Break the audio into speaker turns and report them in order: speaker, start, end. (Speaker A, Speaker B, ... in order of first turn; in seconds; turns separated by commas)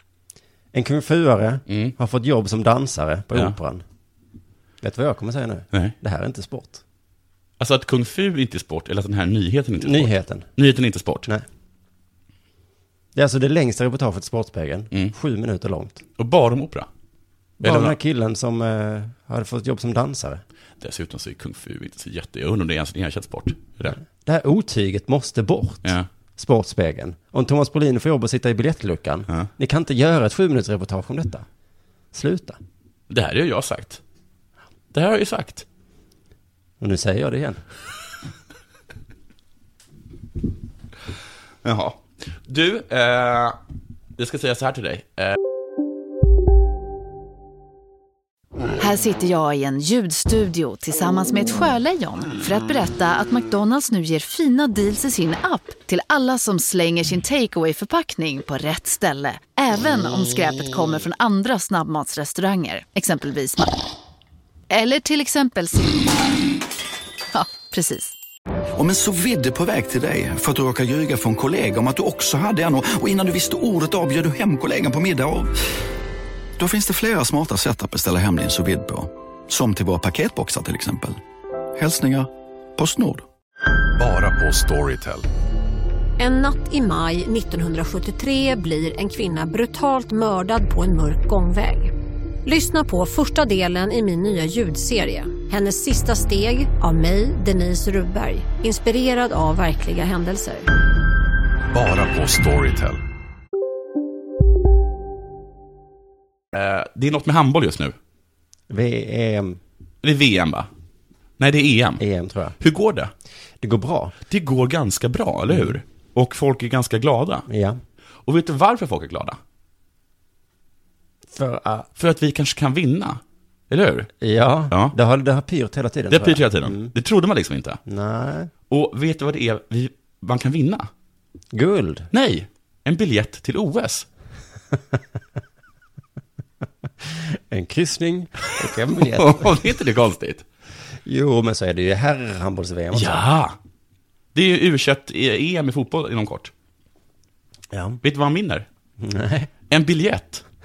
Speaker A: 0.7-3.8, Speaker B: 1.7-1.9, Speaker A: 4.8-6.8, Speaker B: 7.6-11.3, Speaker A: 9.8-10.5, Speaker A: 13.2-16.0, Speaker B: 16.2-16.9, Speaker A: 17.6-20.4, Speaker B: 17.6-18.0, Speaker B: 20.8-24.0, Speaker A: 23.9-31.5, Speaker A: 32.1-32.6, Speaker B: 33.1-34.0, Speaker B: 34.9-35.6, Speaker A: 36.8-37.6, Speaker B: 41.6-43.6, Speaker B: 44.2-45.4, Speaker C: 48.8-63.7, Speaker C: 64.7-66.1, Speaker C: 67.3-68.1, Speaker D: 68.8-75.6, Speaker D: 76.6-81.2, Speaker D: 81.8-83.2, Speaker E: 84.0-85.3, Speaker F: 86.2-91.9, Speaker F: 92.5-100.7, Speaker E: 101.7-103.0, Speaker B: 106.5-108.0, Speaker A: 108.7-109.6, Speaker B: 110.0-110.7, Speaker B: 111.4-112.0, Speaker A: 112.0-112.6, Speaker B: 112.6-113.1, Speaker A: 113.6-114.2, Speaker B: 114.3-117.5, Speaker A: 115.5-115.8, Speaker A: 117.5-117.8, Speaker B: 118.3-119.4, Speaker A: 121.3-121.9, Speaker B: 122.0-124.1, Speaker A: 124.2-126.9, Speaker B: 126.1-127.8, Speaker A: 127.9-128.5, Speaker B: 128.7-130.9, Speaker A: 131.5-132.1, Speaker B: 132.1-134.1, Speaker A: 137.1-139.6, Speaker B: 139.0-140.4, Speaker A: 141.1-143.2, Speaker B: 142.9-143.6, Speaker B: 144.3-146.5, Speaker A: 147.7-148.0, Speaker B: 148.0-148.7, Speaker A: 149.0-149.5, Speaker B: 149.7-150.4